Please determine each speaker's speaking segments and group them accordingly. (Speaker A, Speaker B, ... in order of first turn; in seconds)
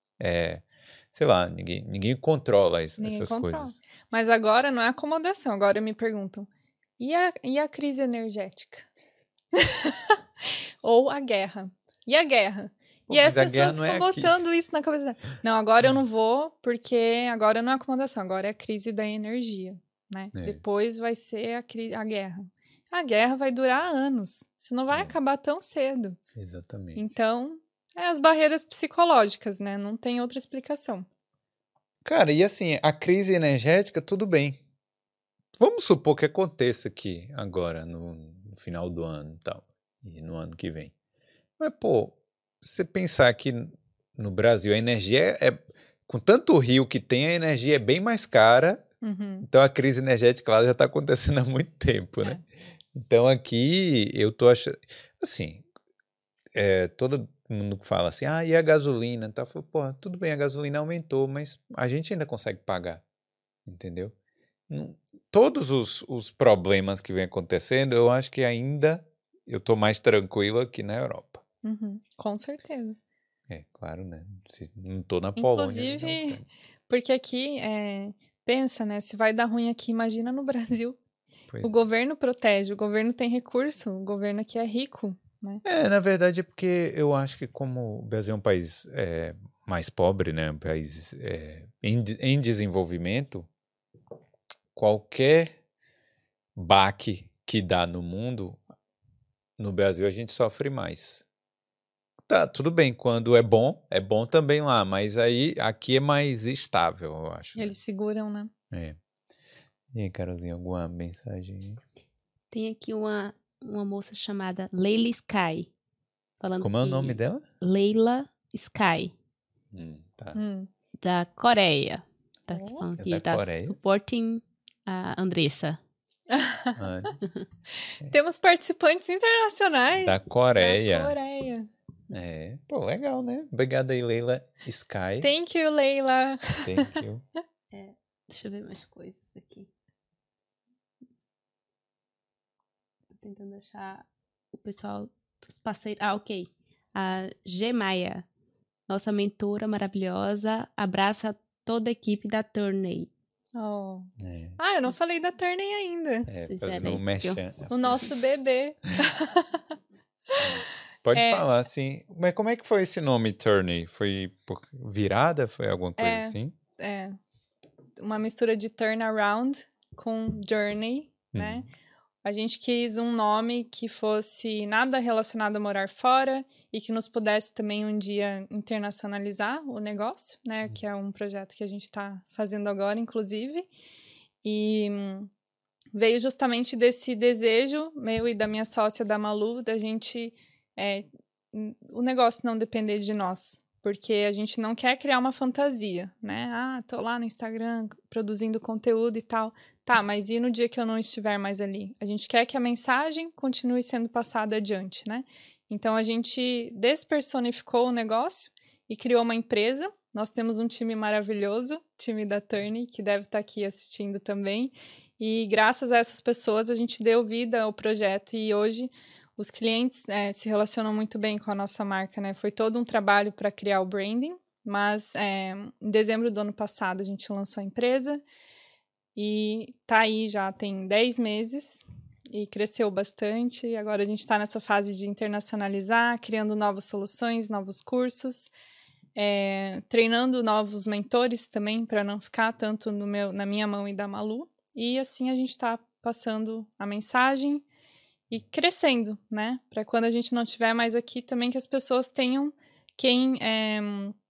Speaker A: 0.2-3.8, 13.1-14.4, 20.3-20.6, 26.3-27.0, 32.0-34.6, 35.6-40.9, 41.6-48.8, 49.4-52.4, 52.9-55.6, 56.5-63.0, 63.6-64.1, 64.7-71.4, 73.5-76.4, 81.5-81.8, 85.6-93.5, 94.7-95.5, 96.5-98.6, 99.6-101.2, 102.3-107.8, 108.7-109.0, 109.9-111.8, 116.6-117.4, 119.7-120.4, 123.0-123.8, 126.8-127.2, 130.0-131.1, 132.1-135.3, 136.6-137.2, 154.2-154.6, 156.3-158.1, 160.4-166.5, 171.3-171.7
Speaker B: 3.0-6.5, 7.0-8.9, 9.5-26.2, 26.9-31.1, 49.0-49.5, 71.6-73.0, 75.4-81.0, 81.6-85.6, 107.5-108.5, 120.3-120.7, 122.5-122.8, 126.3-127.1, 128.0-131.7, 135.2-137.0, 153.5-156.3, 157.7-159.7, 160.3-160.6, 161.1-161.4, 166.0-167.2, 168.0-171.7, 172.2-183.7, 184.4-185.3, 185.9-228.2, 229.2-238.5, 239.2-247.6, 248.3-254.1
Speaker C: 112.5-115.7, 116.4-119.1, 121.0-125.8, 137.7-139.7, 143.1-148.2, 148.9-153.1, 156.5-157.4